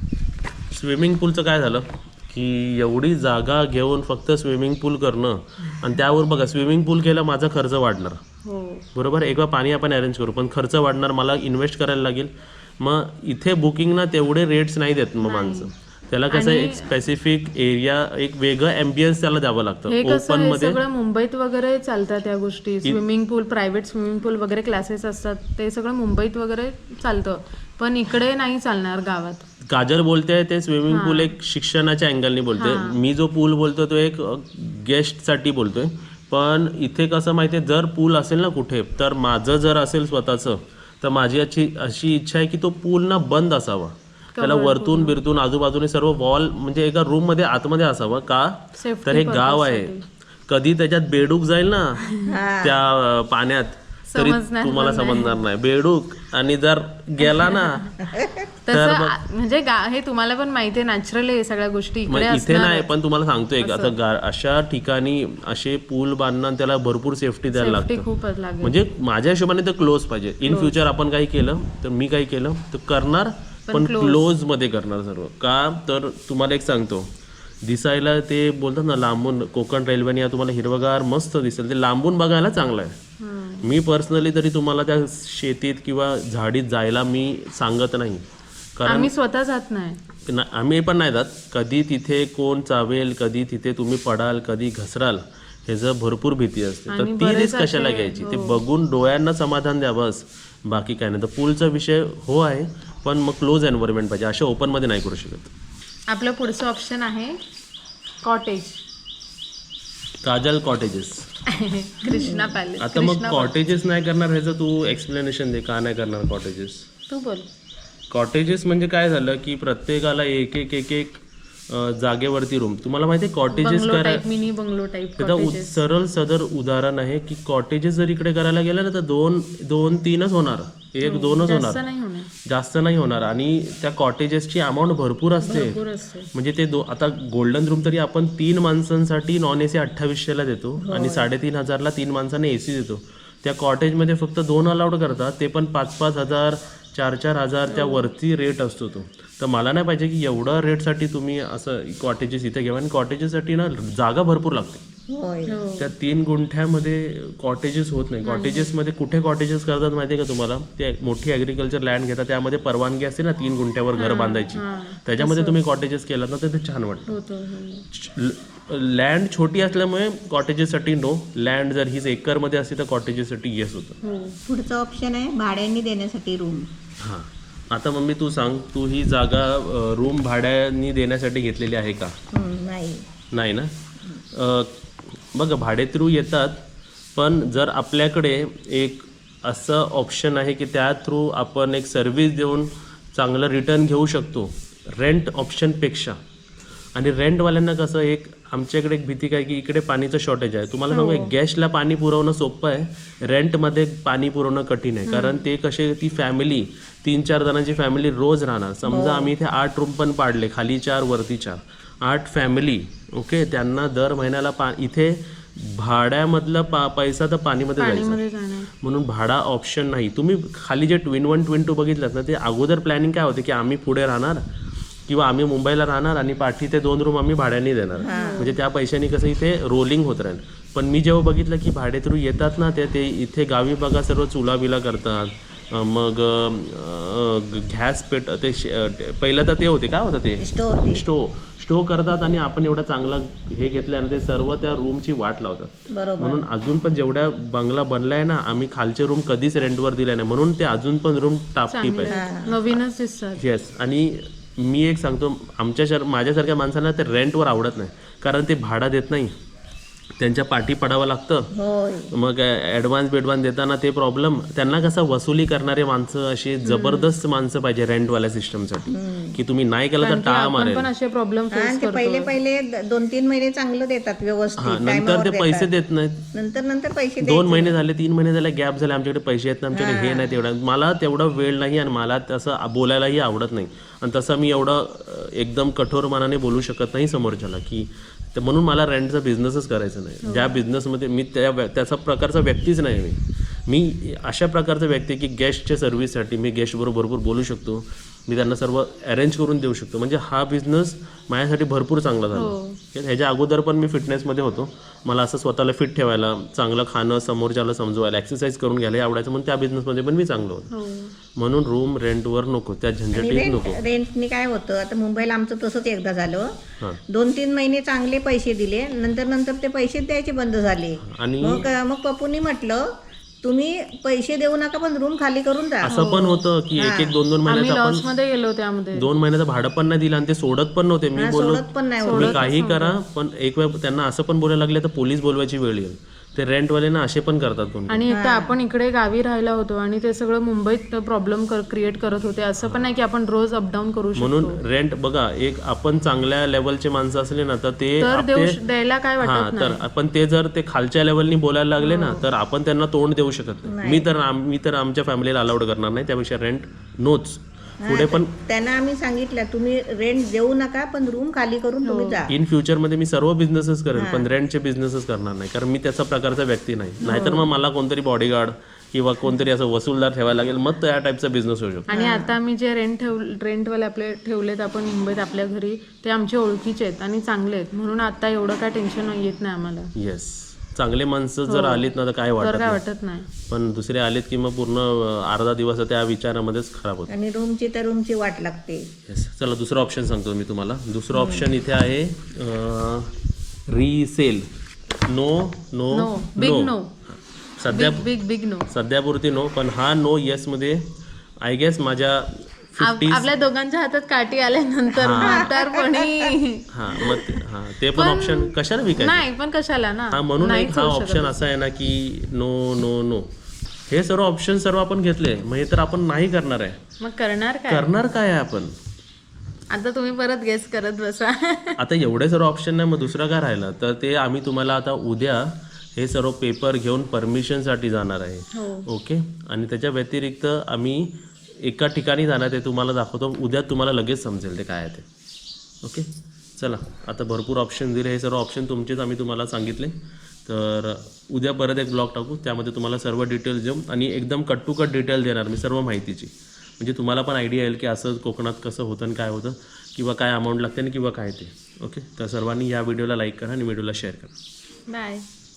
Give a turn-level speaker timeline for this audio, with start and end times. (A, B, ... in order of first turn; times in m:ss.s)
0:00.7-0:08.2 A
0:08.4-0:08.8 B
0:08.9-0:20.8 A
0:15.2-0:15.7 B
0:16.3-0:16.9 B
0:19.9-0:29.4 B
0:29.6-0:49.9 A
0:30.9-0:31.3 B
0:32.6-0:33.0 B
0:44.3-0:45.2 B
0:48.8-0:50.0 B
0:50.5-0:52.0 A
0:52.0-0:52.3 B
0:52.2-0:52.8 C
0:52.6-0:57.9 A
0:54.1-0:55.4 B
0:57.2-0:57.8 B
0:58.1-0:58.4 C
0:58.6-1:02.9 B
0:58.7-0:59.2 A
1:02.1-1:08.1 A
1:03.6-1:04.0 B
1:07.5-1:08.7 B
1:08.6-1:17.1 A
1:10.4-1:10.7 B
1:13.7-1:14.2 B
1:17.6-1:23.0 A
1:23.2-1:23.7 B
1:23.6-1:28.2 A
1:28.8-1:29.1 A
1:28.8-1:30.0 B
1:30.2-1:45.5 A
1:36.9-1:38.6 B
1:46.1-1:47.4 B
1:48.2-1:48.8 B
1:50.2-1:51.3 A
1:51.5-1:53.6 B
1:52.0-1:52.5 C
1:52.8-1:56.9 A
1:57.1-1:57.5 B
1:58.1-2:04.2 A
2:03.5-2:05.8 B
2:05.2-2:11.8 A
2:11.0-2:12.3 B
2:12.4-2:15.8 A
2:15.4-2:16.3 B
2:16.3-2:34.8 A
2:20.9-2:21.2 C
2:27.7-2:28.0 B
2:35.1-2:35.6 C
2:35.5-2:35.9 B
2:35.8-2:47.1 A
2:38.2-2:38.7 B
2:44.0-2:45.6 B
2:47.1-2:47.8 B
2:47.9-2:54.0 A
2:54.0-2:54.4 B
2:54.4-2:56.7 C
2:57.0-3:02.1 A
3:02.3-3:03.0 C
3:03.3-3:03.7 A
3:04.3-3:04.7 A
3:05.3-3:06.6 A
3:07.1-3:16.2 A
3:16.9-3:38.2 A
3:20.9-3:21.3 B
3:25.0-3:25.5 B
3:28.9-3:29.3 C
3:37.8-3:38.7 B
3:38.8-3:44.4 A
3:45.1-4:12.2 A
3:48.0-3:48.5 C
3:48.1-3:48.6 B
4:00.4-4:01.0 C
4:05.9-4:06.4 C
4:11.7-4:13.4 B
4:12.1-4:12.5 C
4:13.4-4:19.3 A
4:20.2-4:21.5 A
4:21.5-4:22.1 C
4:22.1-4:30.9 A
4:26.6-4:27.1 B
4:28.9-4:29.4 C
4:30.0-4:32.3 B
4:31.5-4:35.8 C
4:34.6-4:36.3 A
4:36.3-4:37.8 C
4:37.2-5:10.7 A
4:39.7-4:40.4 C
4:50.2-4:50.6 B
5:02.3-5:02.8 B
5:10.7-5:11.1 B
5:11.3-5:13.8 A
5:13.1-5:16.5 C
5:17.1-5:22.8 C
5:21.0-5:21.7 A
5:23.4-5:26.0 C
5:25.8-5:28.0 A
5:25.9-5:26.4 B
5:26.8-5:27.1 C
5:27.4-5:29.1 B
5:28.9-5:38.1 A
5:31.2-5:32.4 C
5:32.0-5:33.0 B
5:37.9-5:44.6 B
5:38.1-5:38.5 C
5:44.2-5:48.6 A
5:48.0-5:49.8 B
5:49.2-5:58.3 A
5:51.8-5:52.2 B
5:53.7-5:54.1 C
5:57.8-6:02.3 C
6:01.8-6:02.2 B
6:02.3-6:11.9 A
6:04.0-6:04.3 C
6:07.0-6:07.5 B
6:11.9-6:19.9 B
6:11.9-6:12.4 C
6:20.0-6:22.8 A
6:21.5-6:23.3 B
6:23.5-6:27.1 A
6:27.1-6:28.9 C
6:29.1-6:33.1 A
6:33.7-6:34.4 A
6:35.1-6:36.7 A
6:35.9-6:36.9 B
6:37.6-6:38.1 A
6:37.7-6:38.7 B
6:38.7-6:40.8 A
6:41.4-6:43.3 A
6:42.8-6:47.4 B
6:45.0-6:45.5 A
6:45.1-6:46.2 C
6:46.7-6:49.3 A
6:47.9-6:51.4 B
6:50.1-6:53.3 A
6:53.9-6:56.8 A
6:57.0-6:57.9 B
6:57.7-6:58.7 A
6:59.7-7:01.8 B
7:01.8-7:15.0 A
7:08.5-7:08.9 B
7:15.8-7:19.9 A
7:20.4-7:34.3 A
7:34.9-7:35.3 B